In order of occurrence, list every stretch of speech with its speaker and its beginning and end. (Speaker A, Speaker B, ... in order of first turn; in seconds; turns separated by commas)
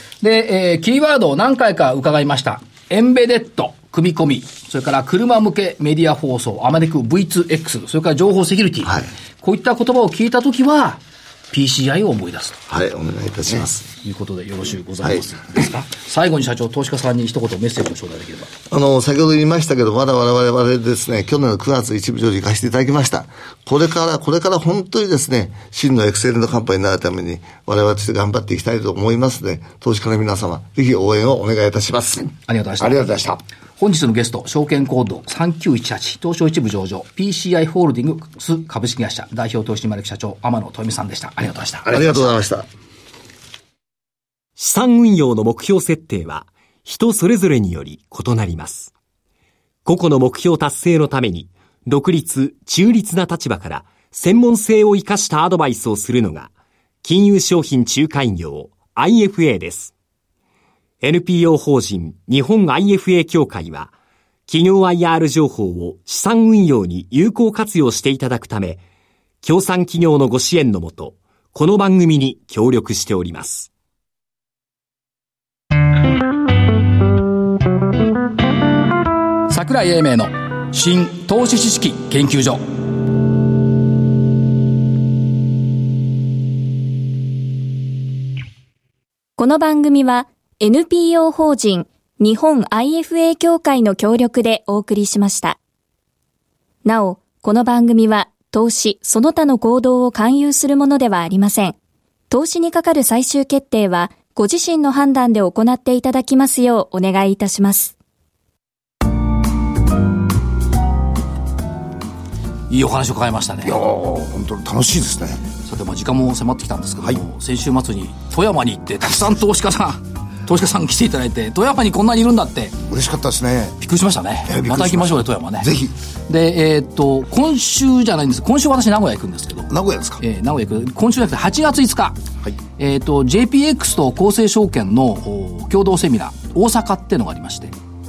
Speaker A: 0.2-12.6, Speaker B: 12.7-13.9, Speaker A: 14.0-18.5, Speaker B: 18.7-32.3, Speaker A: 32.5-33.2, Speaker C: 32.8-33.4, Speaker A: 33.8-42.3, Speaker B: 41.8-42.7, Speaker D: 44.6-48.9, Speaker D: 49.8-56.5, Speaker D: 57.0-59.9, Speaker D: 61.0-63.9, Speaker D: 64.5-68.8, Speaker D: 69.4-73.7, Speaker A: 79.5-82.7, Speaker E: 89.4-95.5, Speaker E: 96.8-101.7, Speaker E: 102.3-107.9, Speaker A: 112.7-113.8, Speaker C: 113.6-115.4, Speaker A: 115.6-122.8, Speaker C: 122.9-123.8, Speaker A: 123.8-125.7, Speaker C: 124.5-125.9, Speaker A: 126.3-132.2, Speaker C: 129.7-130.2, Speaker A: 132.8-137.7